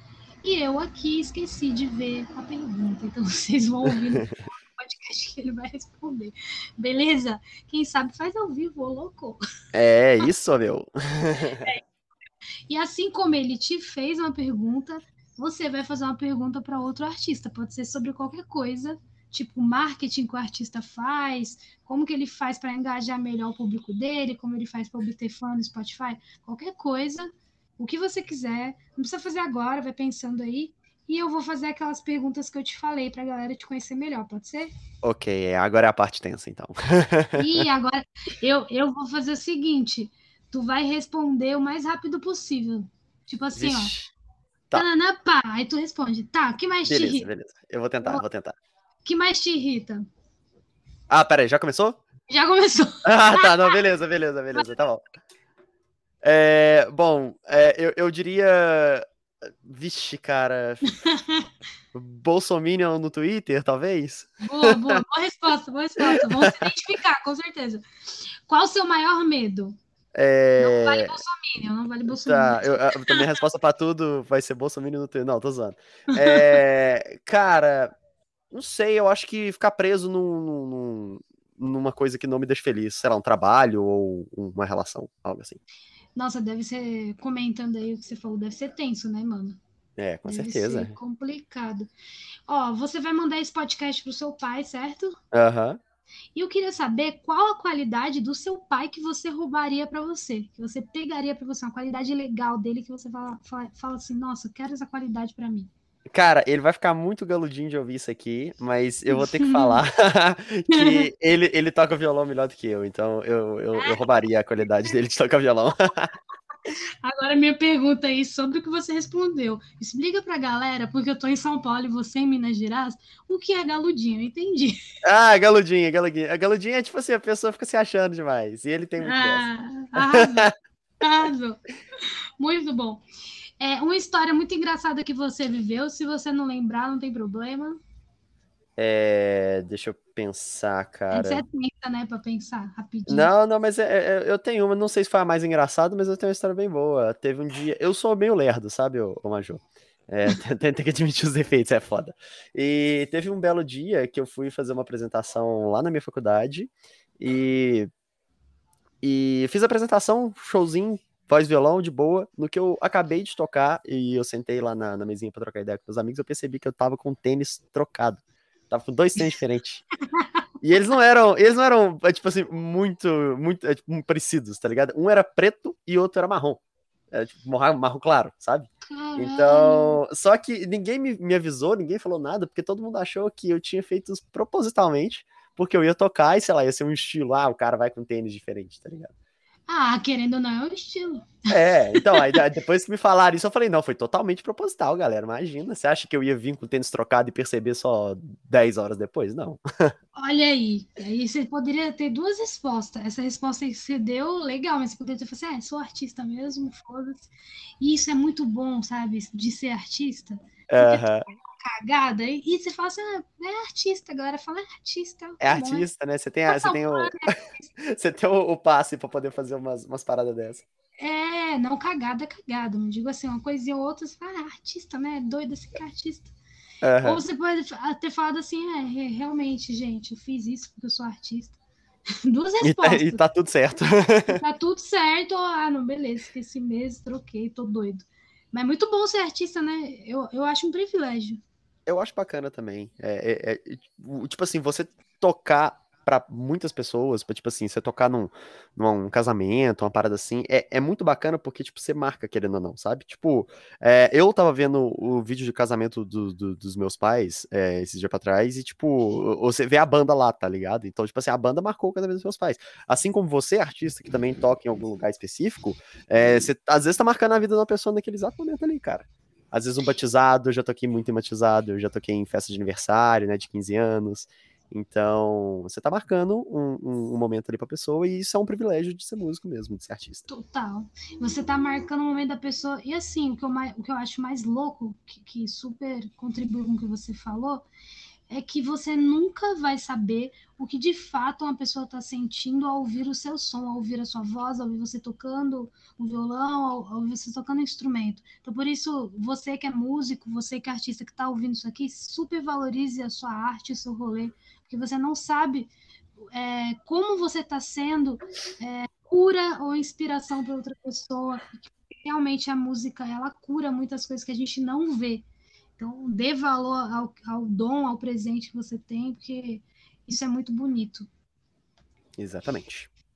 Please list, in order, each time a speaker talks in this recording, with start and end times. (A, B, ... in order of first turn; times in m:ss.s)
0:00.4-0:09.4 A
0:04.0-0:04.4 B
0:09.7-0:11.7 B
0:12.7-0:34.7 A
0:35.0-0:37.7 B
0:37.4-0:43.9 A
0:43.6-0:44.1 B
0:44.7-0:47.3 A
0:46.9-0:48.6 B
0:49.0-0:50.1 A
0:51.1-0:52.0 B
0:52.3-0:53.8 A
0:53.0-0:55.0 B
0:56.2-0:59.0 B
0:59.6-1:00.9 B
1:01.0-1:01.5 A
1:01.9-1:05.0 B
1:04.4-1:07.8 A
1:06.0-1:06.7 B
1:08.5-1:09.8 A
1:10.1-1:11.2 B
1:10.6-1:13.3 A
1:12.1-1:17.9 B
1:16.1-1:16.6 A
1:18.5-1:25.6 B
1:26.2-1:29.6 A
1:30.0-1:31.0 B
1:30.3-1:31.9 A
1:32.5-1:35.2 A
1:35.3-1:35.8 B
1:36.4-1:45.7 A
1:46.1-1:56.1 B
1:49.1-1:49.8 A
1:50.7-1:51.1 A
1:53.8-1:54.0 A
1:57.0-2:04.8 A
2:05.0-2:09.4 B
2:09.0-2:13.0 A
2:10.1-2:10.5 B
2:13.6-2:17.8 A
2:18.8-2:21.4 B
2:21.1-2:23.3 A
2:23.1-2:37.9 B
2:39.0-2:49.9 B
2:50.6-2:56.6 B
2:57.1-3:09.1 B
2:58.9-3:00.0 A
3:09.7-3:12.4 A
3:11.5-3:19.9 B
3:20.2-3:35.9 A
3:30.7-3:31.3 B
3:35.4-3:40.6 B
3:36.5-3:37.7 A
3:41.0-3:46.3 A
3:46.8-3:47.2 B
3:47.0-3:51.6 A
3:52.2-3:53.2 A
3:52.6-3:54.4 B
3:54.3-4:01.4 A
4:01.9-4:40.2 B
4:40.3-4:47.7 A
4:48.3-5:05.7 A
5:06.3-5:15.2 A
5:15.8-5:21.1 A
5:22.2-5:22.9 B